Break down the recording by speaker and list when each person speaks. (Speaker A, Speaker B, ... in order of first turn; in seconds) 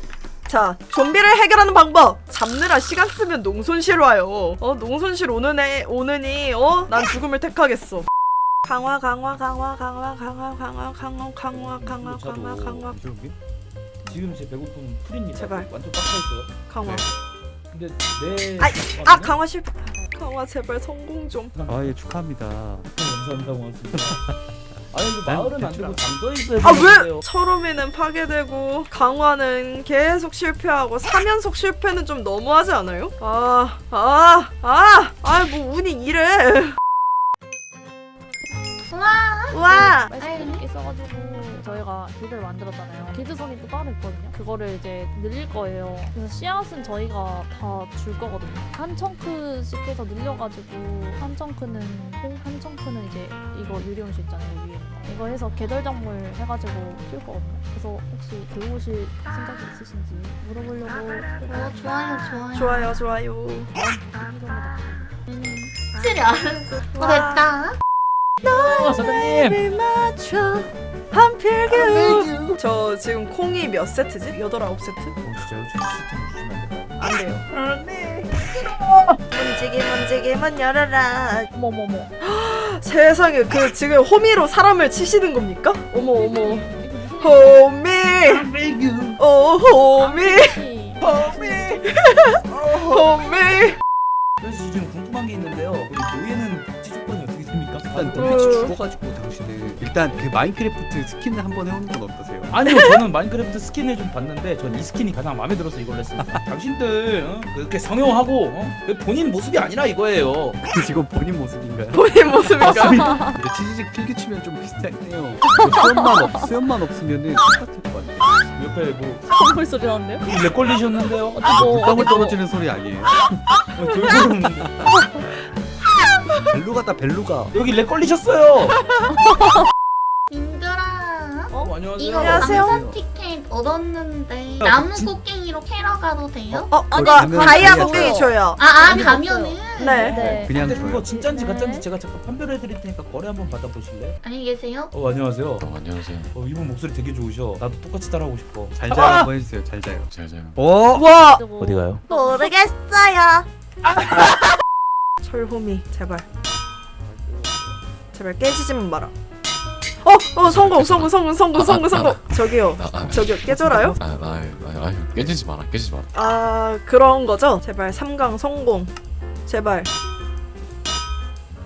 Speaker A: 0.5-8.1, 8.7-13.0, 15.3-15.7, 16.7-17.1, 18.6-21.5, 26.6-36.8, 39.5-40.1, 62.5-63.7, 66.9-67.5, 68.4-75.2, 77.0-78.5, 79.3-81.5, 82.2-86.7, 87.2-88.5, 89.2-93.8, 98.2-98.7, 111.9-113.3, 132.1-132.8, 136.7-138.9, 139.8-140.2, 155.2-156.2, 158.1-159.1, 160.0-164.0, 166.1-168.9, 169.5-169.9
Speaker B: 11.5-12.9, 14.1-16.5, 17.7-19.4, 21.5-22.0, 22.9-24.2, 24.9-27.2, 68.5-69.6, 75.2-77.4, 78.5-79.0, 88.3-89.2, 94.4-98.7, 102.5-110.6, 118.5-119.3, 120.2-121.5, 123.7-125.0, 127.5-128.8, 131.5-132.7, 134.6-135.2, 138.8-139.1, 140.0-144.2, 144.9-145.7, 146.3-149.3, 150.9-152.0
Speaker C: 12.9-13.3, 16.8-17.1, 21.7-22.9, 23.9-24.3, 25.2-26.0, 97.9-102.6, 106.2-106.5, 110.6-118.3, 121.4-123.2, 124.2-124.9, 126.5-127.6, 132.2-133.0, 136.9-138.3, 140.4-141.1, 148.8-151.1
Speaker D: 38.9-39.6, 40.2-40.6, 61.5-63.0, 65.3-67.8, 71.8-72.5, 130.3-136.8, 138.6-140.0, 144.2-144.9, 152.1-153.4
Speaker E: 39.7-61.5, 63.7-65.2, 81.5-82.1, 86.0-87.7, 90.0-91.8, 113.0-113.3, 115.5-116.5, 119.3-120.3, 121.3-122.4, 129.1-129.5, 137.2-141.9, 151.1-152.5
Speaker F: 145.6-146.3, 150.1-150.6, 160.4-166.1